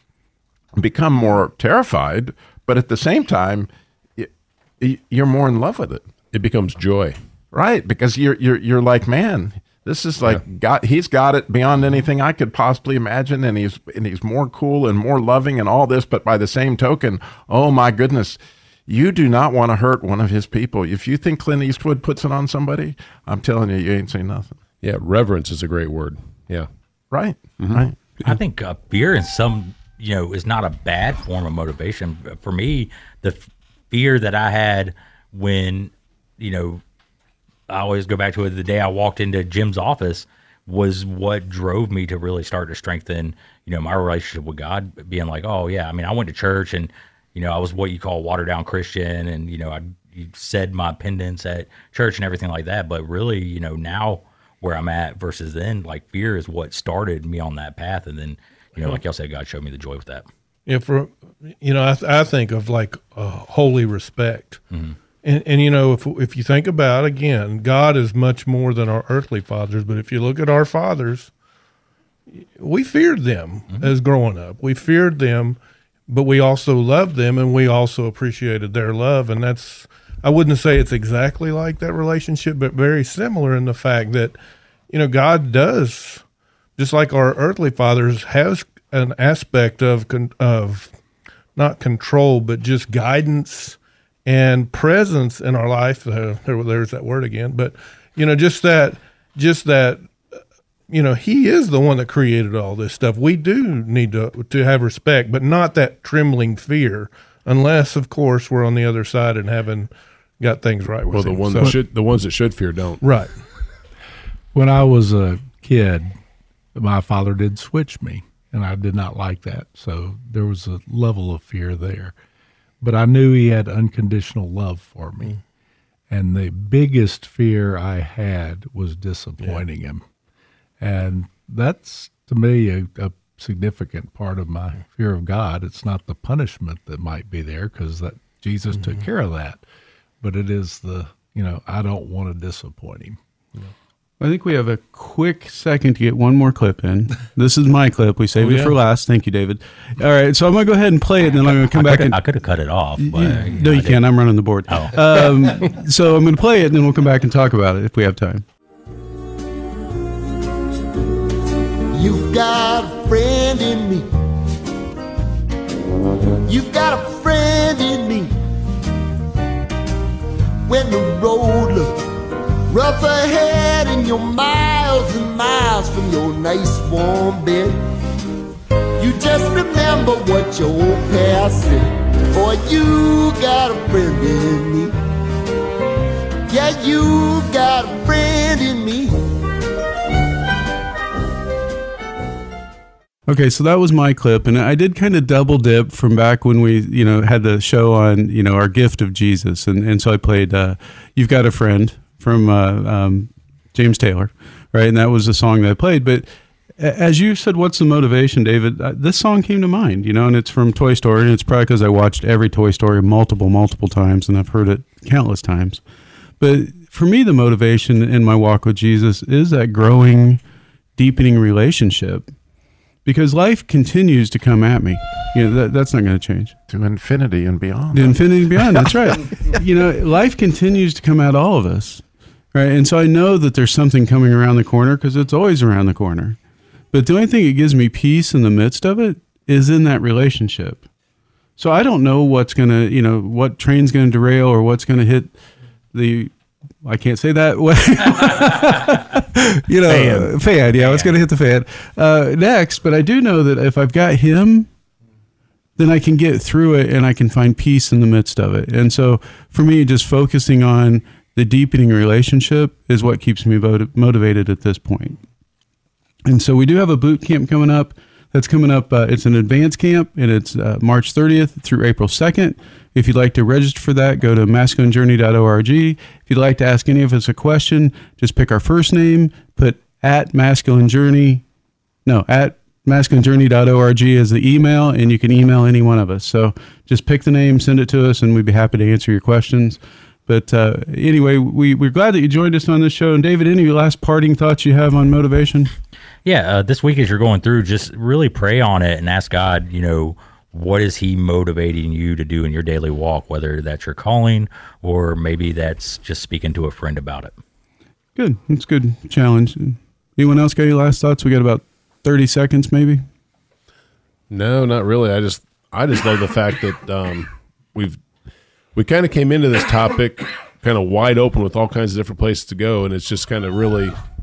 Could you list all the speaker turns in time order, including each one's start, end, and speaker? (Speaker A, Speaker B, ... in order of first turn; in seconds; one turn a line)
Speaker A: 0.8-4.3
Speaker A: 4.8-6.0
Speaker B: 6.3-7.2
Speaker A: 7.5-24.6
Speaker B: 24.8-26.7
Speaker A: 27.1-27.9
Speaker B: 27.8-28.4
Speaker C: 28.2-36.8
Speaker C: 37.7-60.3
Speaker D: 60.7-64.6
Speaker D: 65.2-71.3
Speaker D: 72.4-84.3
Speaker D: 84.9-86.2
Speaker D: 86.8-90.9
Speaker D: 91.5-100.1
Speaker D: 100.9-111.8
Speaker B: 111.1-113.0
Speaker D: 113.0-113.3
Speaker E: 114.5-116.2
Speaker E: 116.8-122.1
Speaker E: 122.8-125.4
Speaker E: 126.1-130.0
Speaker E: 130.8-139.6
Speaker D: 138.7-139.0
Speaker E: 140.2-143.2
Speaker F: 144.2-152.2
Speaker D: 148.4-148.7
Speaker C: 151.7-154.1
Speaker F: 153.0-158.4
Speaker C: 154.7-155.3
Speaker G: 161.9-164.0
Speaker G: 166.4-168.3
Speaker G: 170.7-172.0
Speaker G: 172.7-177.8
Speaker G: 179.0-184.9
Speaker G: 186.5-189.2
Speaker F: 193.3-215.8
Speaker F: 216.4-220.4
Speaker F: 221.0-222.3
Speaker F: 223.0-226.6
Speaker A: 226.7-228.8
Speaker F: 227.9-236.4
Speaker F: 236.9-240.8
Speaker F: 241.6-245.4
Speaker F: 245.9-254.7
Speaker B: 249.9-250.4
Speaker C: 250.7-251.1
Speaker F: 255.8-265.2
Speaker F: 266.2-281.4
Speaker F: 282.1-295.7
Speaker C: 296.2-307.3
Speaker F: 308.1-313.0
Speaker B: 314.3-318.0
Speaker B: 318.7-323.9